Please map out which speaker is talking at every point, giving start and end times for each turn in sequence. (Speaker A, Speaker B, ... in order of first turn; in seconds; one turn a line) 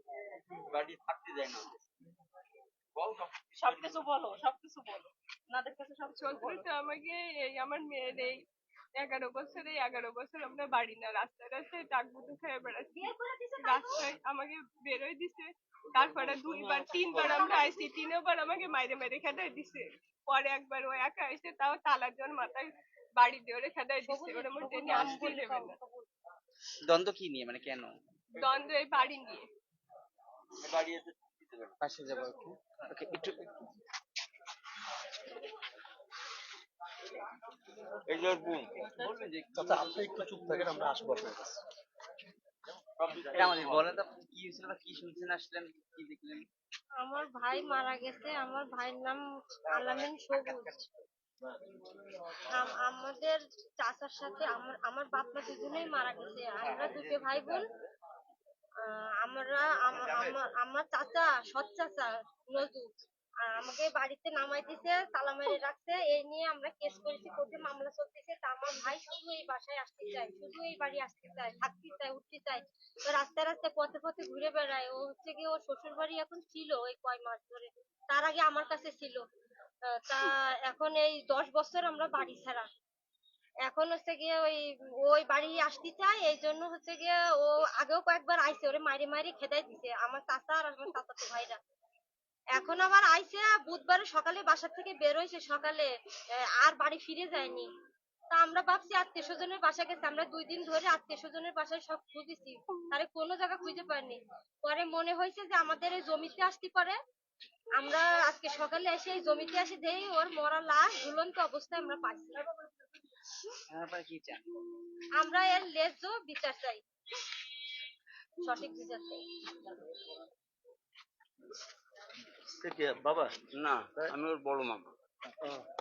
Speaker A: 0.7-1.8
Speaker A: 3.0-3.8
Speaker B: 3.5-6.7
Speaker C: 6.2-8.4
Speaker C: 9.0-13.1
Speaker D: 12.9-14.1
Speaker C: 13.6-25.8
Speaker D: 17.0-17.7
Speaker D: 24.0-26.1
Speaker E: 26.9-27.9
Speaker C: 28.4-29.4
Speaker A: 30.6-31.7
Speaker E: 31.8-33.5
Speaker A: 38.1-38.8
Speaker E: 38.8-39.5
Speaker F: 39.5-41.6
Speaker A: 43.0-43.9
Speaker E: 43.3-46.5
Speaker D: 47.0-50.8
Speaker E: 49.8-50.6
Speaker D: 52.5-57.7
Speaker D: 58.8-62.9
Speaker D: 63.4-79.2
Speaker D: 79.9-82.7
Speaker D: 83.6-91.6
Speaker D: 92.5-97.7
Speaker D: 98.3-107.0
Speaker D: 107.8-112.4
Speaker E: 113.7-114.4
Speaker D: 115.2-116.8
Speaker D: 118.4-119.2
Speaker A: 123.4-124.9